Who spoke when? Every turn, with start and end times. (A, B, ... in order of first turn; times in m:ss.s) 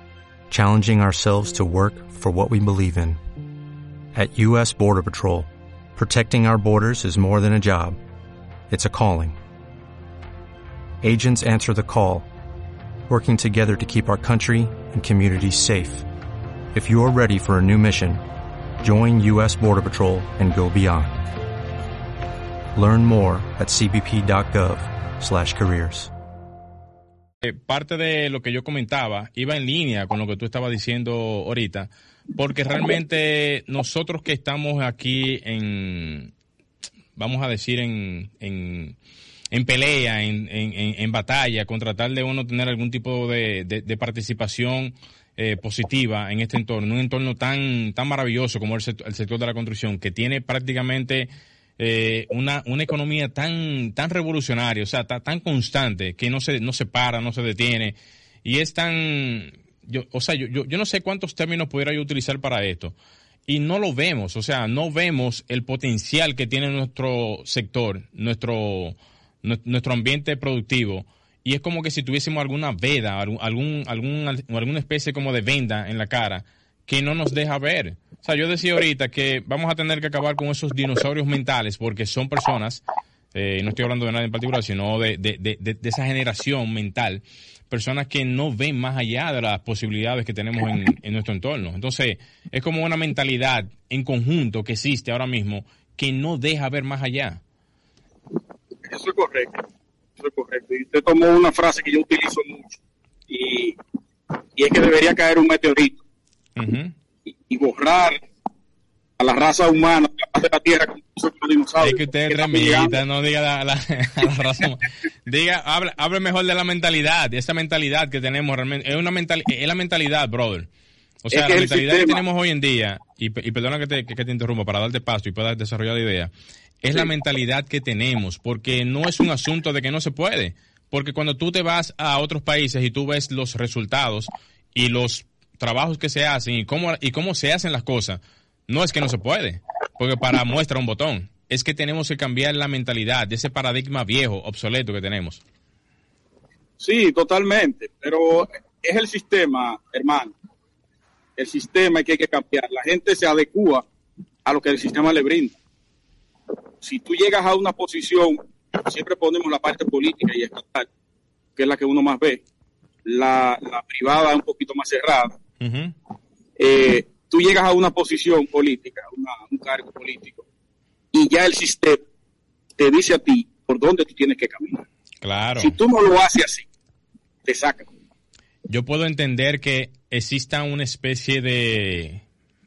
0:00.5-0:03.2 A
0:04.2-0:08.0 A
0:08.7-0:09.4 A
0:11.0-0:12.3 A
0:13.1-0:16.1 A
0:16.7-0:18.2 A
0:18.8-0:21.3 A
0:22.8-0:26.1 A
0:27.4-0:36.3 B
0:37.2-0:39.0 B
0:39.5-1:03.0 B
1:03.5-1:37.4 B
1:38.8-1:39.6 C
1:40.2-1:42.8 C
1:43.3-1:43.8 C
1:44.6-1:46.0 C
1:46.6-1:46.9 B
1:47.3-1:48.2 C
1:49.2-1:53.0 C
1:51.8-2:00.7 B
2:01.2-2:25.4 B
2:01.3-2:02.2 C
2:26.8-2:30.3 C
2:31.4-2:33.9 C
2:34.4-2:35.6 C
2:36.8-2:40.9 C
2:41.6-2:42.4 C
2:43.0-2:45.3 C
2:45.6-2:46.0 B
2:46.6-2:50.4 C
2:51.1-2:52.0 C
2:52.8-2:54.8 C
2:55.2-2:55.8 B
2:55.6-2:56.6 C
2:57.4-2:57.9 C
2:58.7-3:02.2 B